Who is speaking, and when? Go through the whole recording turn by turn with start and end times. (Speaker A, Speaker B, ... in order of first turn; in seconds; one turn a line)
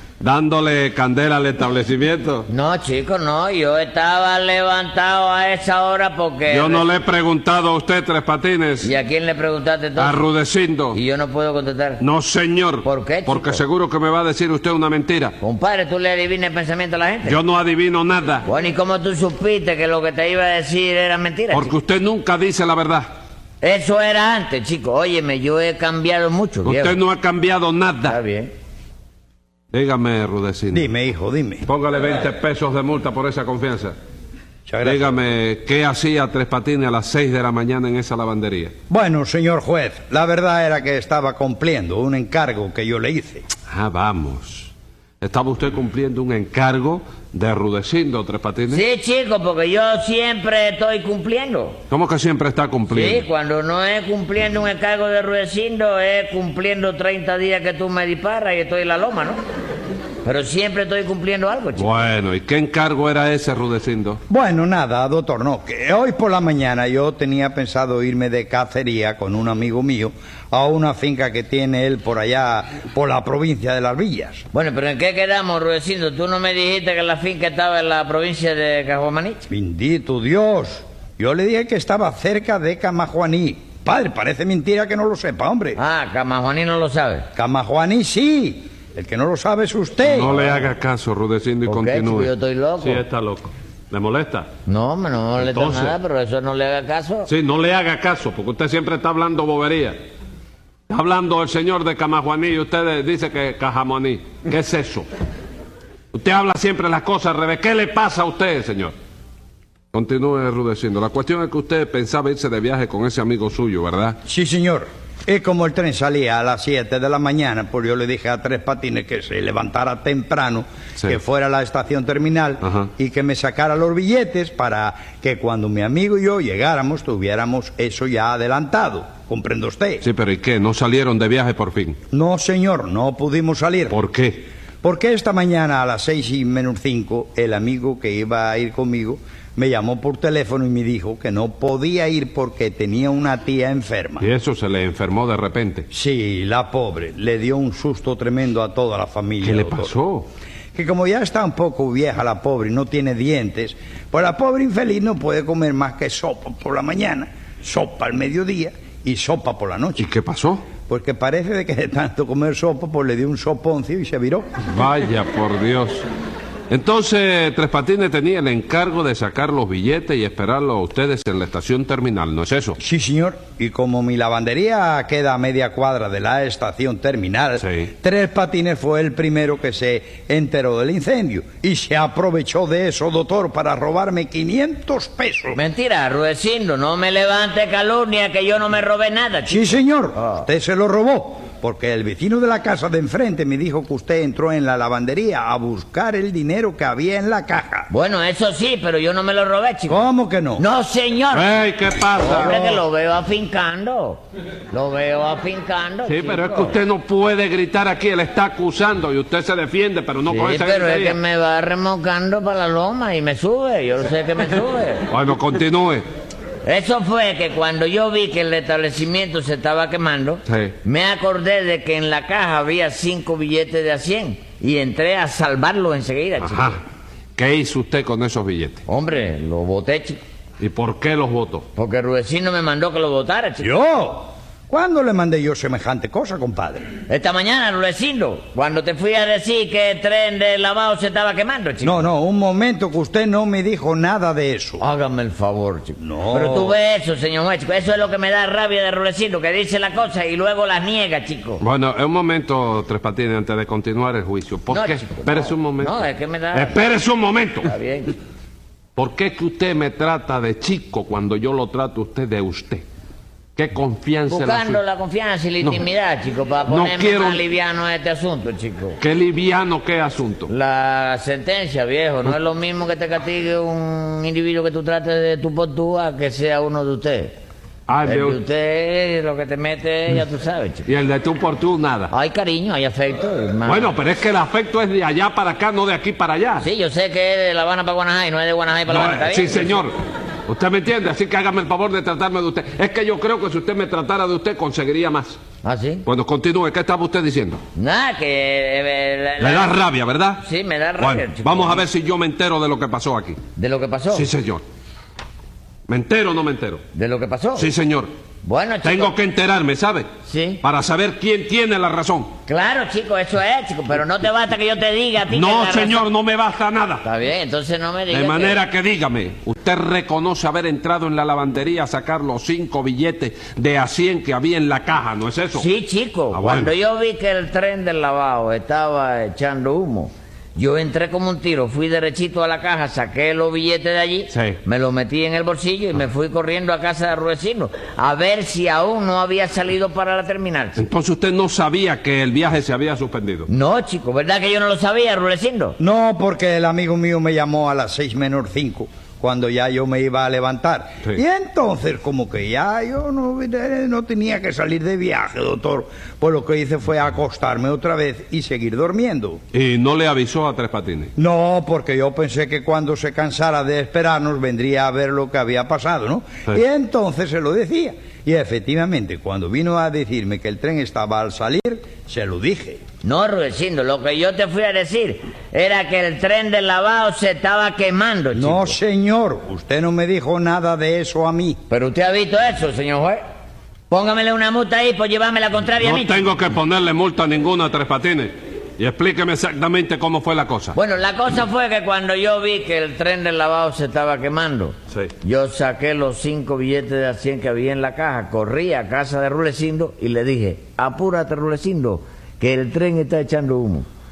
Speaker A: 0.2-2.5
Speaker B: 2.5-6.9
Speaker A: 6.5-8.9
Speaker B: 8.8-10.2
Speaker A: 10.0-11.0
Speaker B: 10.9-12.0
Speaker A: 12.0-15.4
Speaker B: 12.8-13.6
Speaker B: 15.4-17.4
Speaker A: 17.3-18.5
Speaker B: 18.4-21.7
Speaker A: 21.5-23.1
Speaker B: 23.6-27.0
Speaker A: 26.6-28.2
Speaker B: 28.1-28.5
Speaker A: 29.7-30.9
Speaker C: 30.7-31.6
Speaker A: 31.6-34.0
Speaker C: 34.7-35.1
Speaker A: 34.8-38.7
Speaker C: 38.9-43.5
Speaker A: 43.7-48.8
Speaker B: 48.7-51.8
Speaker A: 51.9-53.3
Speaker B: 52.9-59.4
Speaker B: 60.2-62.0
Speaker A: 61.8-64.2
Speaker C: 64.3-74.4
Speaker B: 74.5-79.5
Speaker C: 79.5-85.8
Speaker B: 85.8-87.3
Speaker C: 87.3-90.4
Speaker A: 90.0-94.5
Speaker B: 91.7-93.0
Speaker B: 94.7-97.3
Speaker A: 95.4-96.0
Speaker A: 97.3-100.0
Speaker A: 100.9-105.1
Speaker A: 106.1-108.9
Speaker A: 109.9-114.2
Speaker C: 114.3-130.1
Speaker A: 130.0-132.0
Speaker C: 132.1-134.0
Speaker A: 133.9-134.5
Speaker C: 134.8-144.3
Speaker A: 144.2-145.9
Speaker C: 145.9-149.9
Speaker A: 149.4-150.3
Speaker C: 150.8-160.1
Speaker A: 160.0-160.6
Speaker C: 160.9-164.5
Speaker A: 164.7-166.1
Speaker A: 166.7-172.8
Speaker C: 172.8-185.6
Speaker A: 177.6-177.9
Speaker B: 185.5-190.4
Speaker C: 189.5-197.9
Speaker B: 197.9-200.0
Speaker C: 199.9-200.6
Speaker B: 200.6-201.6
Speaker A: 201.3-202.5
Speaker B: 202.2-206.8
Speaker C: 202.3-202.8
Speaker A: 206.1-211.2
Speaker B: 210.3-215.1
Speaker A: 215.1-216.1
Speaker B: 216.6-226.8
Speaker A: 220.5-220.8
Speaker A: 226.4-226.8
Speaker A: 227.4-228.8
Speaker B: 228.9-230.2
Speaker A: 230.6-231.7
Speaker B: 231.8-233.7
Speaker C: 233.6-236.9
Speaker B: 237.1-242.1
Speaker C: 241.8-244.8
Speaker B: 244.8-251.6
Speaker C: 246.0-246.8
Speaker A: 251.6-257.7
Speaker B: 254.7-256.8
Speaker B: 257.6-258.1
Speaker A: 259.0-262.9
Speaker A: 263.6-264.8
Speaker B: 264.3-269.0
Speaker A: 266.7-267.4
Speaker A: 269.0-270.5
Speaker B: 270.5-277.4
Speaker A: 277.9-278.4
Speaker B: 278.1-280.9
Speaker A: 280.9-282.1
Speaker B: 282.1-283.9
Speaker A: 283.6-286.7
Speaker B: 286.6-289.8
Speaker A: 288.9-289.9
Speaker A: 290.5-295.4
Speaker B: 295.6-296.1
Speaker A: 296.1-297.6
Speaker B: 297.8-299.8
Speaker A: 299.4-300.4
Speaker B: 300.4-301.8
Speaker A: 301.0-303.4
Speaker B: 303.6-304.3
Speaker A: 304.1-304.6
Speaker A: 305.9-306.8
Speaker B: 306.9-307.7
Speaker A: 307.6-308.1
Speaker B: 308.4-309.1
Speaker A: 308.8-310.1
Speaker B: 310.3-310.6
Speaker A: 310.6-312.3
Speaker B: 312.5-316.1
Speaker A: 315.3-317.0
Speaker B: 317.0-318.6
Speaker A: 318.1-325.7
Speaker B: 325.5-340.8
Speaker A: 326.3-326.7
Speaker A: 334.3-334.6
Speaker A: 340.8-343.5
Speaker B: 343.5-345.8
Speaker C: 345.8-359.4
Speaker A: 359.5-361.1
Speaker C: 361.2-372.8
Speaker B: 373.0-378.8
Speaker C: 378.3-381.6
Speaker B: 381.7-383.2
Speaker B: 383.9-386.3
Speaker A: 385.8-390.8
Speaker B: 390.8-403.9